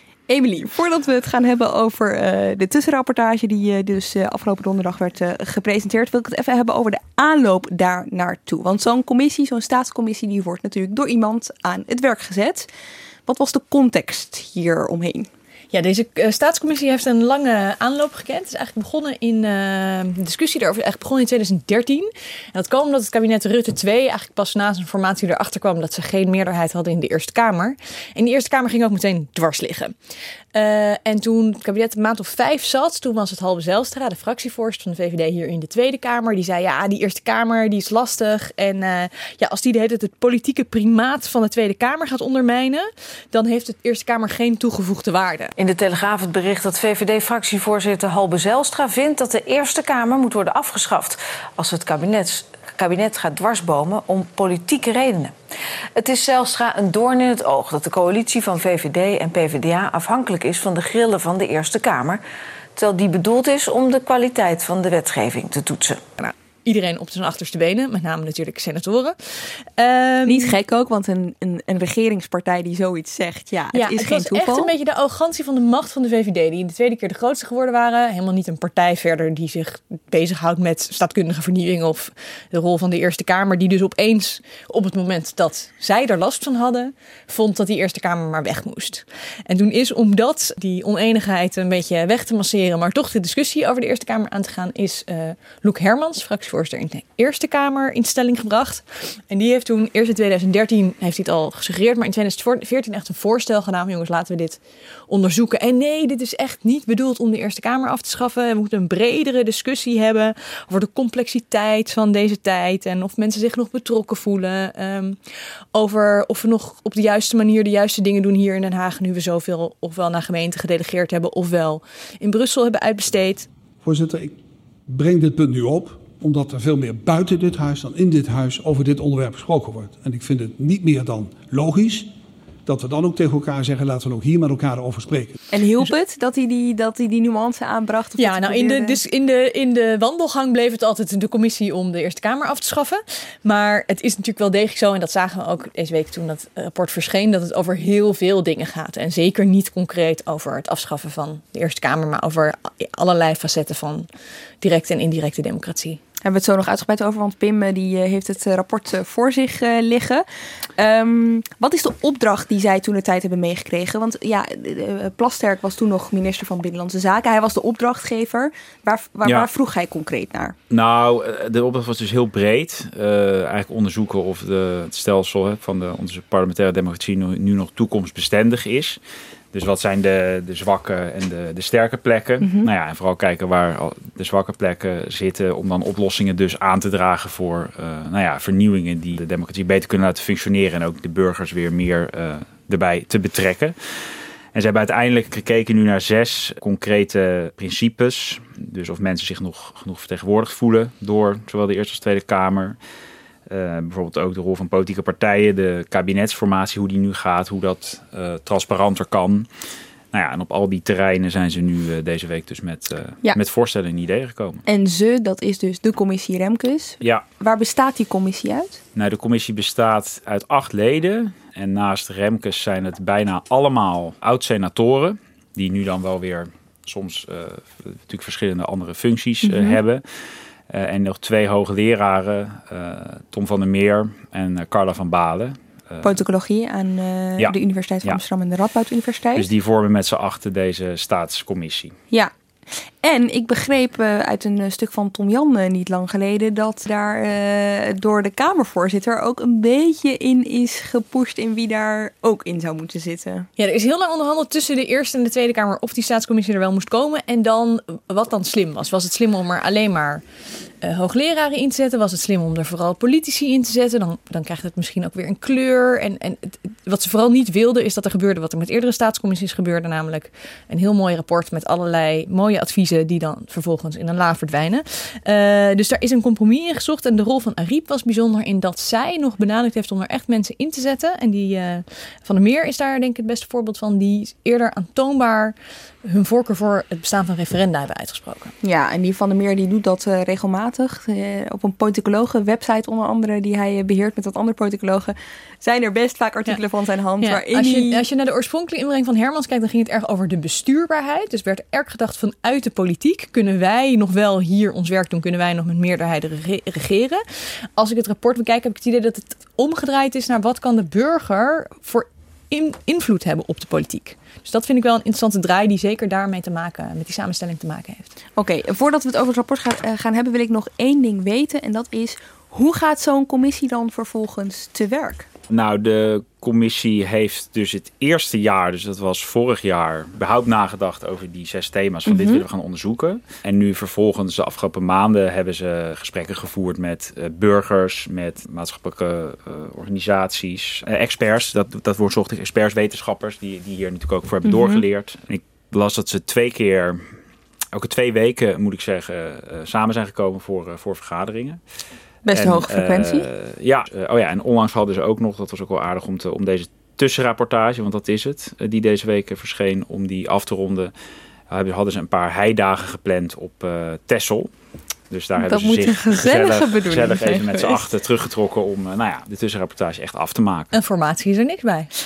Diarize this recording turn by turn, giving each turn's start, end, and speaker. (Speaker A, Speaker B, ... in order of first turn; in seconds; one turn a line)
Speaker A: 0.3-12.7
Speaker A: 13.3-15.3
Speaker B: 15.7-29.9
Speaker B: 30.5-45.5
Speaker C: 45.6-55.3
Speaker C: 56.0-62.2
Speaker C: 62.8-66.1
Speaker B: 66.2-70.5
Speaker A: 70.3-74.7
Speaker B: 73.7-115.2
Speaker B: 115.7-123.5
Speaker D: 123.8-124.3
Speaker D: 124.9-132.1
Speaker D: 132.7-135.4
Speaker A: 135.5-139.0
Speaker B: 138.2-154.1
Speaker B: 154.6-156.0
Speaker A: 156.2-160.2
Speaker A: 160.8-170.6
Speaker E: 170.7-179.0
Speaker E: 179.5-193.8
Speaker A: 182.4-182.7
Speaker E: 194.5-202.8
Speaker E: 203.5-209.5
Speaker E: 210.1-214.6
Speaker A: 214.7-218.8
Speaker E: 218.9-230.0
Speaker A: 229.4-229.8
Speaker E: 230.7-236.2
Speaker A: 236.0-239.5
Speaker E: 237.4-238.2
Speaker E: 239.3-241.9
Speaker A: 243.0-253.5
Speaker B: 253.6-260.2
Speaker B: 260.8-288.5
Speaker A: 288.6-298.0
Speaker B: 297.2-307.2
Speaker B: 307.8-318.1
Speaker A: 318.4-325.3
Speaker E: 325.5-347.0
Speaker A: 332.1-332.4
Speaker A: 344.4-344.8
Speaker E: 347.7-351.6
Speaker A: 352.2-353.3
Speaker E: 352.3-360.9
Speaker E: 361.5-364.5
Speaker E: 365.1-370.7
Speaker A: 365.4-367.8
Speaker B: 370.7-371.9